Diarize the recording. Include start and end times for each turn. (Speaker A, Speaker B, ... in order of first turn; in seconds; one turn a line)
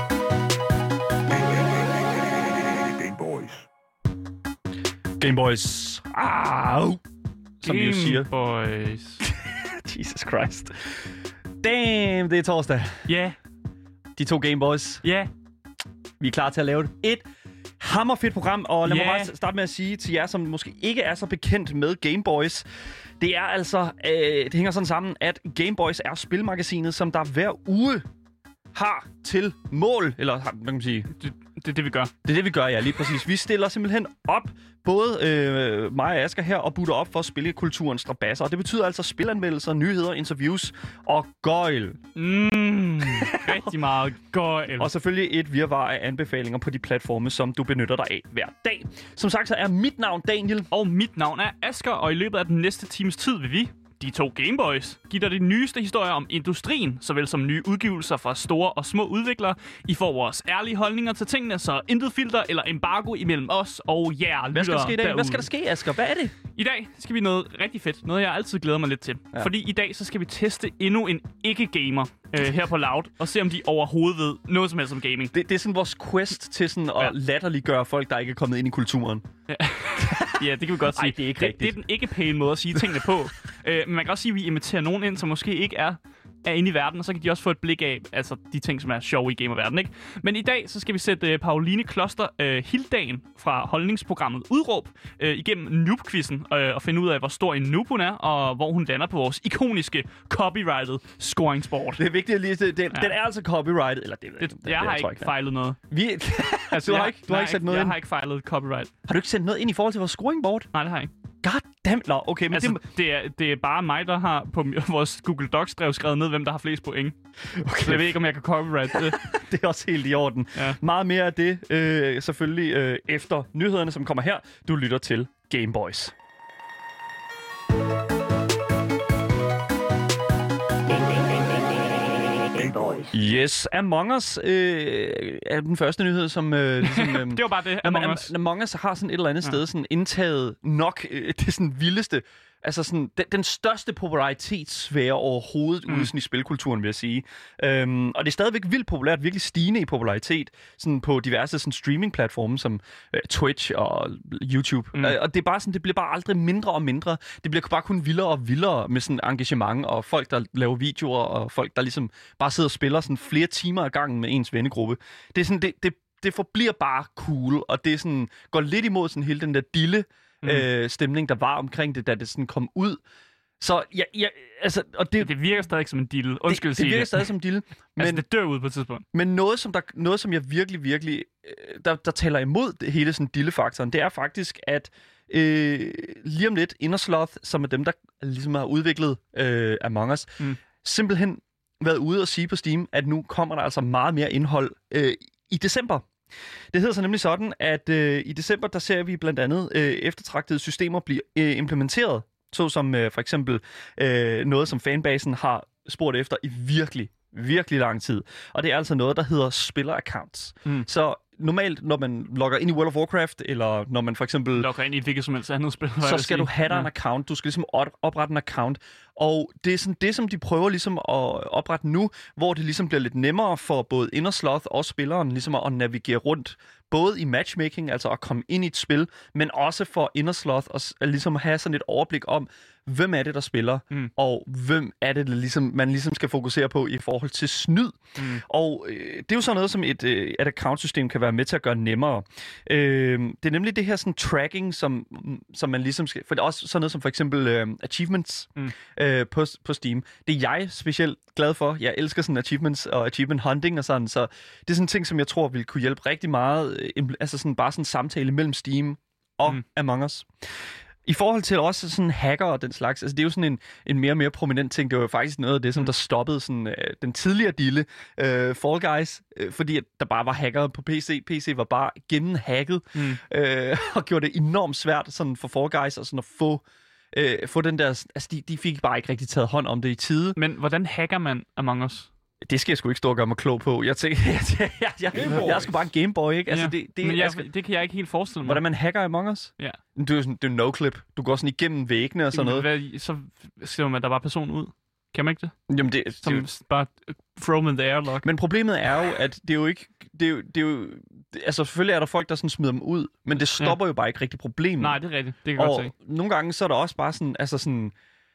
Speaker A: 5.2-7.0
Speaker A: 7.6-8.3
Speaker B: 7.6-9.2
Speaker A: 9.2-11.0
Speaker A: 11.6-13.1
Speaker B: 13.1-13.3
Speaker A: 14.2-15.0
Speaker B: 15.0-15.3
Speaker A: 16.2-17.2
Speaker A: 17.8-22.6
Speaker B: 18.9-19.3
Speaker A: 23.2-28.1
Speaker A: 28.7-31.1
Speaker B: 31.2-32.1
Speaker A: 32.2-42.0
Speaker B: 42.1-44.9
Speaker A: 43.2-43.6
Speaker A: 44.8-50.7
Speaker B: 50.7-65.5
Speaker A: 64.5-66.3
Speaker B: 66.5-75.3
Speaker A: 75.3-79.2
Speaker B: 79.5-102.0
Speaker A: 80.0-81.8
Speaker A: 82.7-83.0
Speaker A: 102.0-105.3
Speaker B: 104.4-105.8
Speaker A: 105.9-108.0
Speaker B: 106.7-108.9
Speaker A: 109.1-110.7
Speaker B: 110.7-111.1
Speaker A: 111.4-112.8
Speaker B: 112.5-117.2
Speaker A: 117.5-118.2
Speaker B: 117.8-119.3
Speaker A: 118.9-126.1
Speaker C: 130.9-133.1
Speaker A: 133.1-173.0
Speaker B: 136.8-138.3
Speaker A: 173.6-175.3
Speaker B: 175.2-177.3
Speaker A: 176.5-178.2
Speaker B: 178.0-179.0
Speaker A: 179.1-196.1
Speaker A: 196.7-214.7
Speaker B: 214.5-216.9
Speaker A: 216.0-260.3
Speaker A: 261.1-280.4
Speaker B: 272.9-273.2
Speaker B: 280.4-282.1
Speaker A: 282.4-287.5
Speaker B: 285.2-285.7
Speaker B: 286.5-288.6
Speaker A: 288.4-292.7
Speaker B: 292.3-295.5
Speaker A: 295.7-296.5
Speaker B: 296.2-298.2
Speaker A: 298.2-305.0
Speaker B: 304.8-305.9
Speaker A: 305.5-307.9